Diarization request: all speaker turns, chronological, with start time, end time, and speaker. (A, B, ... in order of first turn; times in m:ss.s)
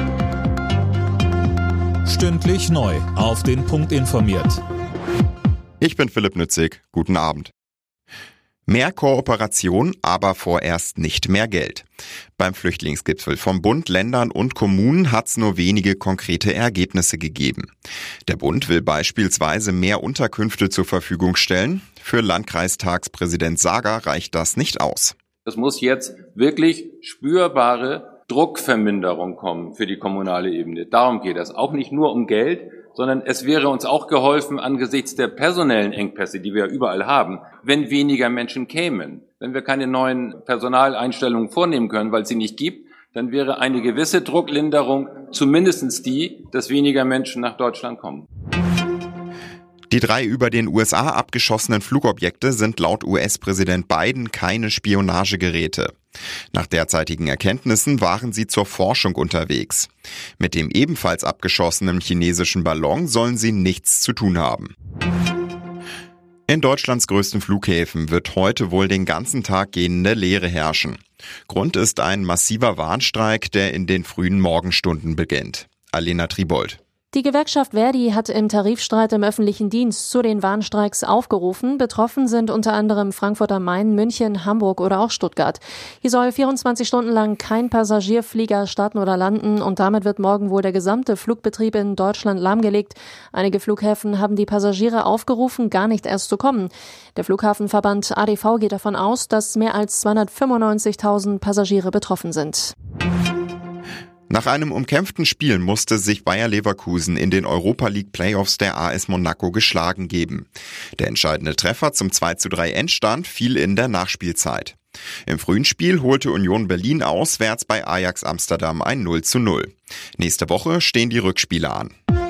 0:02.0-0:04.6 A
0:05.8-0:07.5 B
0:08.7-0:11.8 B
0:12.4-0:17.7 B
0:18.2-0:25.1 B
0:25.4-0:48.3 C
0:49.9-0:55.9 B
0:56.5-1:04.7 B
1:06.5-1:16.8 B
1:17.1-1:42.7 D
1:44.3-2:01.9 B